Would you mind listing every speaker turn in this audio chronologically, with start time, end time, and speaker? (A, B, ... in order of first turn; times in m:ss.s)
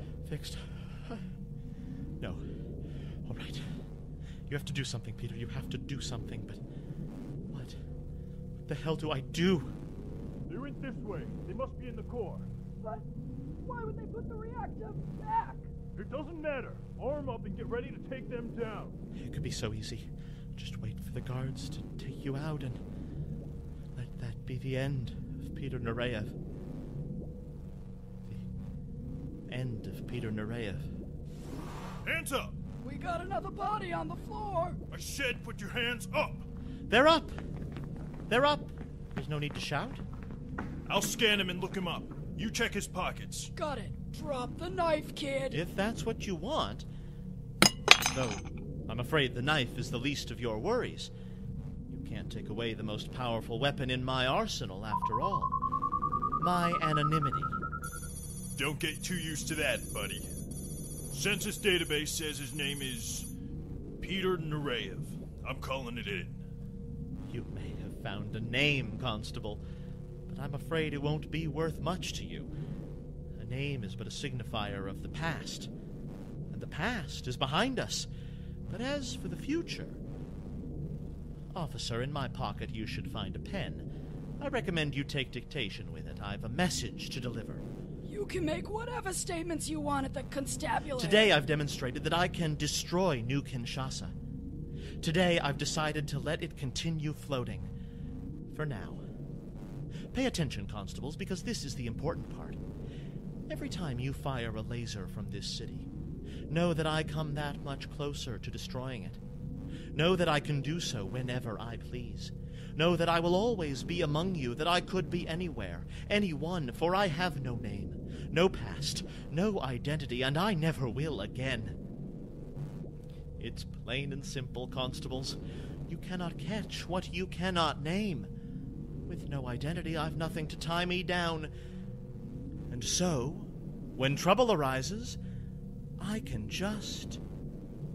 0:00.2-0:01.2 A
0:03.2-0:03.6 A
0:04.5-0:06.6 A
0:07.5-0:07.8 A
0:08.7-0:09.8 A
0:10.5-0:12.5 B
0:13.6-0:15.7 C
0:15.9-0:19.0 B
0:19.2-0:22.8 A
0:24.0-0:26.4 A
0:29.5-0:30.9 A
0:32.0-0:32.6 B
0:32.8-0:34.8 C
0:34.9-0:36.5 B
0:36.9-0:37.4 A
0:38.3-0:40.0 A
0:40.9-0:43.5 B
0:43.6-0:45.6 C
0:45.5-0:46.9 A
0:48.0-0:51.1 A
0:51.9-0:55.6 A
0:56.4-0:57.6 A
0:58.6-1:00.3 B
1:01.1-1:03.3 B
1:04.0-1:06.4 B
1:07.3-1:09.6 A
1:10.3-1:12.5 A
1:13.4-1:15.7 A
1:16.5-1:18.1 A
1:18.7-1:20.0 A
1:21.5-1:23.9 A
1:24.4-1:27.7 A
1:28.1-1:31.3 C
1:31.0-1:34.2 A
1:35.0-1:37.7 A
1:38.5-1:39.0 A
1:40.1-1:42.6 A
1:43.5-1:45.9 A
1:46.5-1:49.2 A
1:49.9-2:01.8 A
2:03.4-2:05.4 A
2:05.9-2:08.3 A
2:09.1-2:11.5 A
2:12.7-2:15.2 A
2:16.0-2:17.2 A